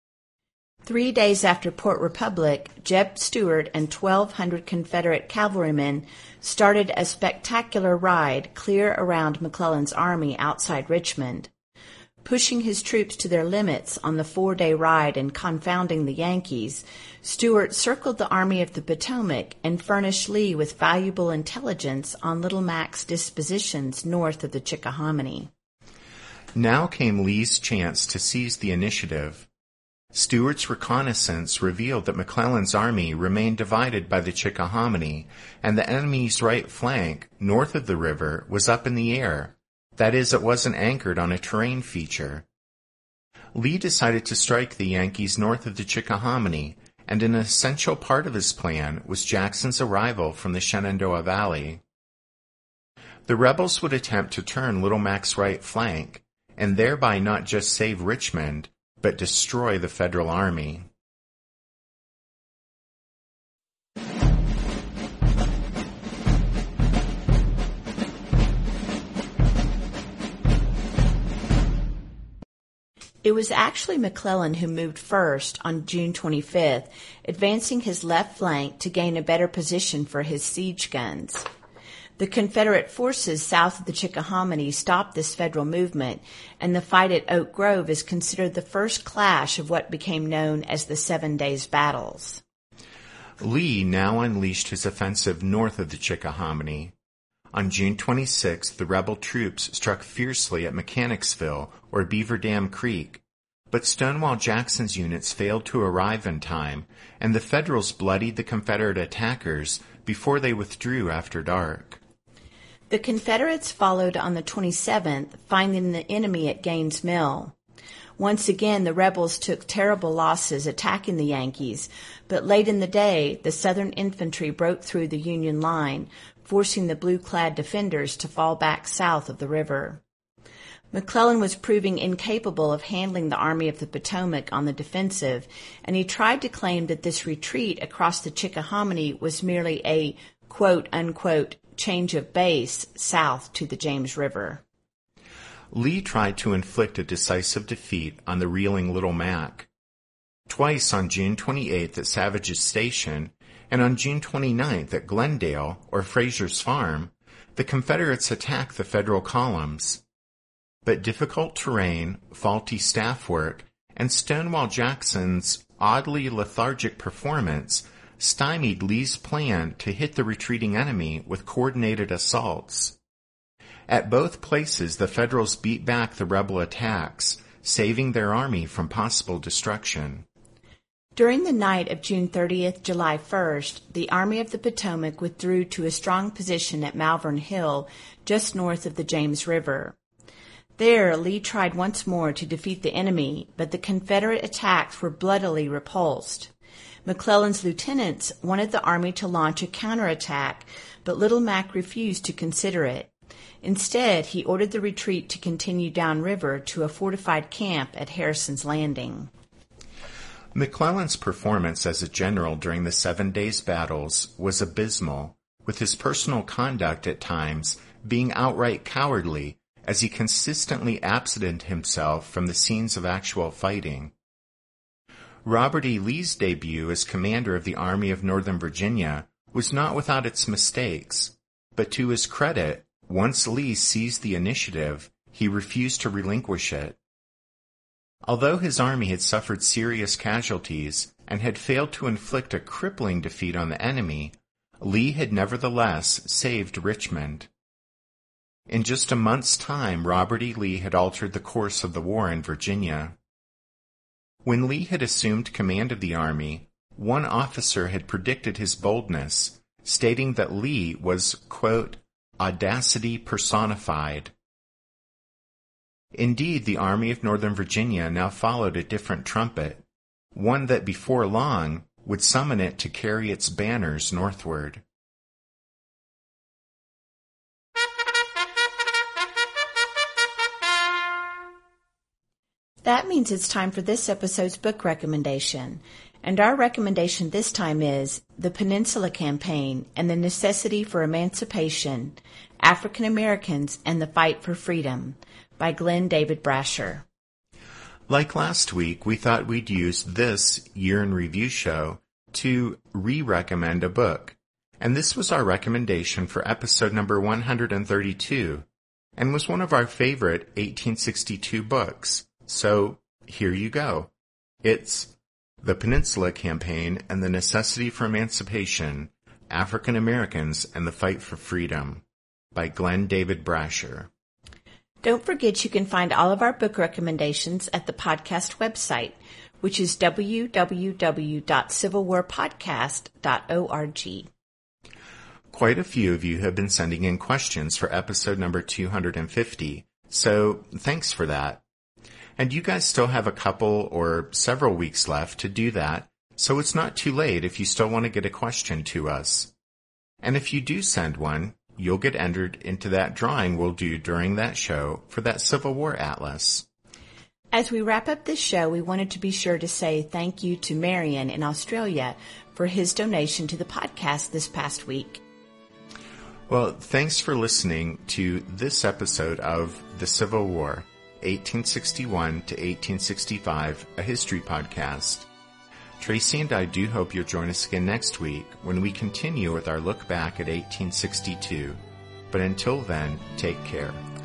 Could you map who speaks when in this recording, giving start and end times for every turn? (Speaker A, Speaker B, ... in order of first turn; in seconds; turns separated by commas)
Speaker A: 0.9-11.5, Speaker A: 12.2-25.5, Speaker B: 26.6-29.5, Speaker B: 30.1-42.5, Speaker B: 43.5-51.8, Speaker B: 53.3-60.9, Speaker A: 73.2-81.5, Speaker A: 82.2-92.4, Speaker B: 93.4-96.9, Speaker B: 97.5-112.0, Speaker A: 112.9-117.5, Speaker A: 118.2-130.0, Speaker A: 130.9-144.6, Speaker B: 145.7-149.7, Speaker B: 150.5-160.0, Speaker B: 160.8-173.0, Speaker B: 173.9-180.2, Speaker A: 181.2-190.0, Speaker A: 190.8-196.5, Speaker A: 197.1-209.3, Speaker B: 210.5-224.1, Speaker B: 225.4-237.0, Speaker B: 238.2-247.5, Speaker B: 248.7-253.2, Speaker B: 254.4-264.3, Speaker B: 266.1-269.8, Speaker B: 270.3-274.8, Speaker A: 282.8-297.1, Speaker B: 298.1-308.7, Speaker B: 309.2-314.1, Speaker B: 314.6-324.1, Speaker A: 325.0-334.3, Speaker B: 335.5-341.6, Speaker B: 342.4-349.5, Speaker B: 350.2-356.7, Speaker A: 357.5-365.2, Speaker B: 366.5-375.3, Speaker B: 376.0-384.0